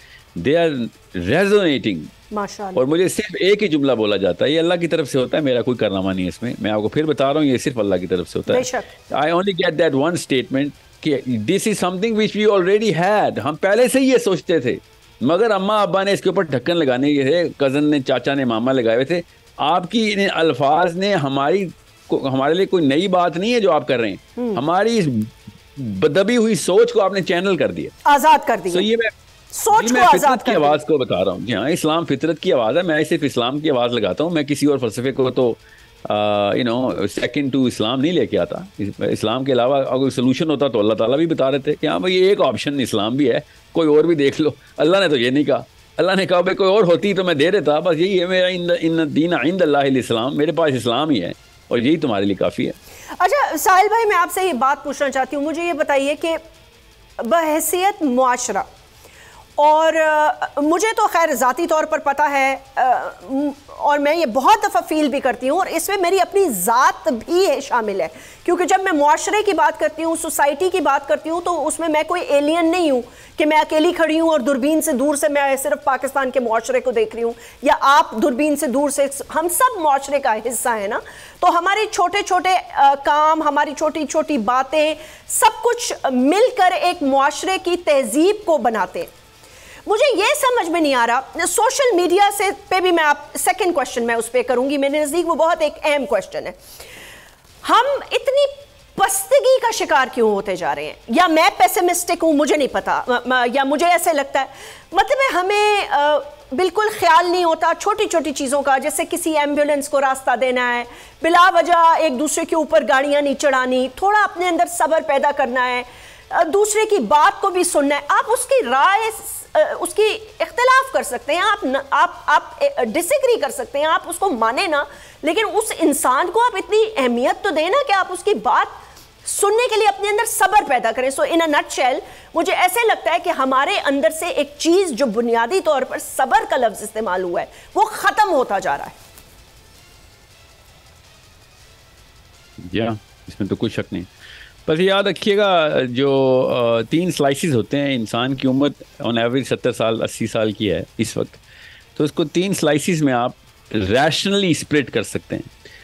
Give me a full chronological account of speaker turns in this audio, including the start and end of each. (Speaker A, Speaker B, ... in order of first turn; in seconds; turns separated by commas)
Speaker A: 0.4-2.1, Speaker B: 2.3-2.8, Speaker A: 2.7-27.9, Speaker B: 8.5-8.9, Speaker B: 28.0-28.9, Speaker A: 28.7-29.1, Speaker B: 29.5-30.8, Speaker A: 29.7-52.8, Speaker B: 53.2-56.4, Speaker B: 57.2-58.7, Speaker B: 59.6-89.1, Speaker B: 89.8-96.5, Speaker B: 97.6-138.9, Speaker A: 142.6-144.1, Speaker A: 144.7-151.4, Speaker A: 151.9-155.5